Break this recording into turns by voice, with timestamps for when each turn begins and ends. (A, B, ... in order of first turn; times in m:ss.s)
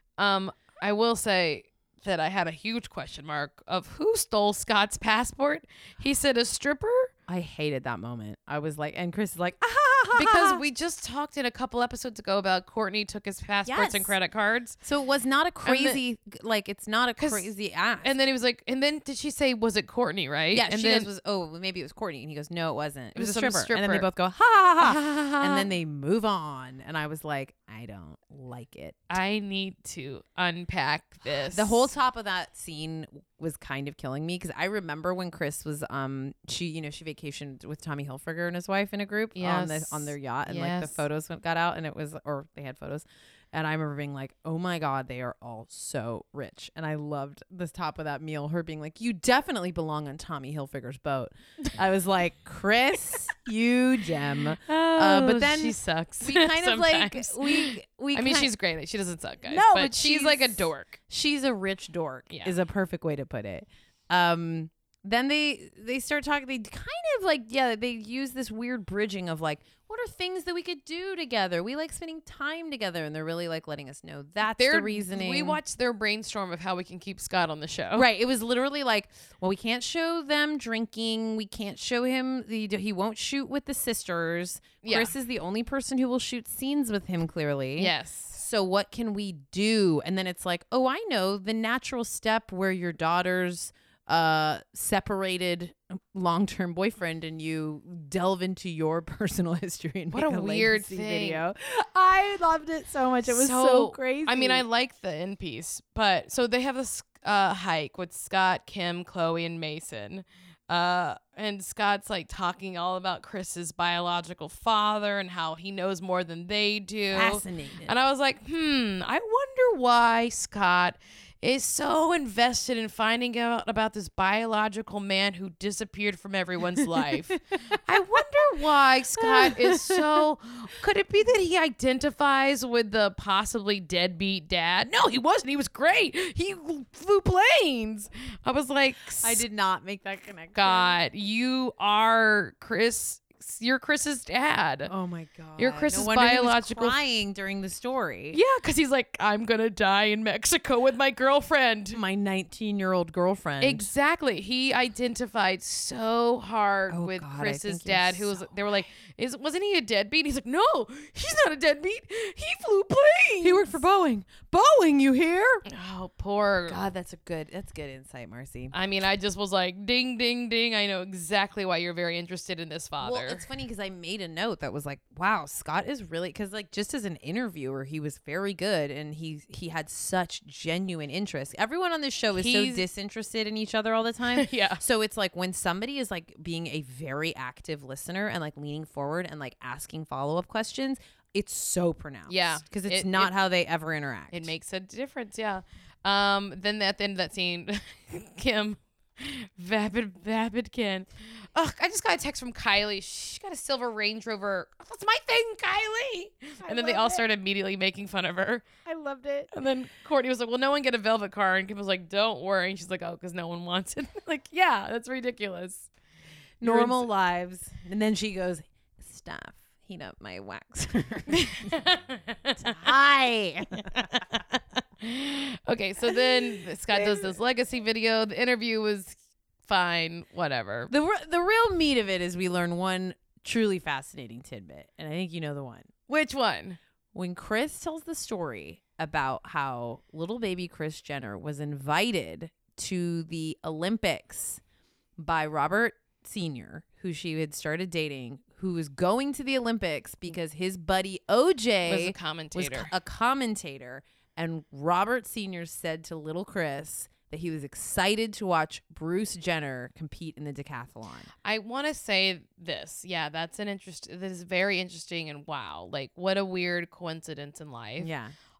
0:00.2-0:07.1 A
0:07.3-0:10.6 B
0:10.1-0:14.8 A
0:13.6-0:14.1 B
0:14.8-0:18.1 B
0:15.6-0:16.0 A
0:17.2-0:17.5 A
0:18.0-0:21.1 A
0:20.5-0:29.1 B
0:23.1-0:24.1 A
0:24.8-0:25.6 A
0:29.1-0:31.9 A
0:31.5-0:58.5 B
0:39.3-0:41.0 A
0:54.7-1:01.0 A
0:59.5-1:15.6 B
1:02.3-1:02.5 A
1:14.5-1:18.1 A
1:17.9-1:44.6 B
1:24.8-1:25.1 A
1:27.8-1:28.4 A
1:40.1-1:41.4 A
1:43.2-2:19.4 A
1:57.1-1:57.9 B
2:09.2-2:10.1 B
2:19.2-2:21.0 B
2:20.5-2:24.9 A
2:24.9-2:28.4 B
2:25.6-2:27.0 A
2:28.3-2:32.0 A
2:31.9-2:33.9 B
2:33.6-2:43.8 A
2:36.9-2:38.5 B
2:43.4-2:45.6 B
2:45.7-2:46.8 A
2:46.7-2:48.7 B
2:48.7-2:53.4 A
2:53.0-3:14.5 B
3:02.3-3:02.8 A
3:04.3-3:04.8 A
3:12.3-3:13.3 A
3:14.3-3:28.7 A
3:26.6-3:27.2 B
3:28.8-3:29.5 B
3:29.5-3:35.9 A
3:36.6-3:41.8 B
3:36.6-3:37.1 A
3:41.3-3:42.8 A
3:42.6-3:44.6 B
3:45.0-3:50.9 A
3:46.1-3:46.4 B
3:46.9-3:47.3 B
3:50.9-3:55.9 B
3:56.1-3:56.8 A
3:57.1-4:04.6 B
4:05.2-4:21.3 B
4:11.9-4:12.9 A
4:21.4-4:28.1 A
4:28.0-4:28.3 B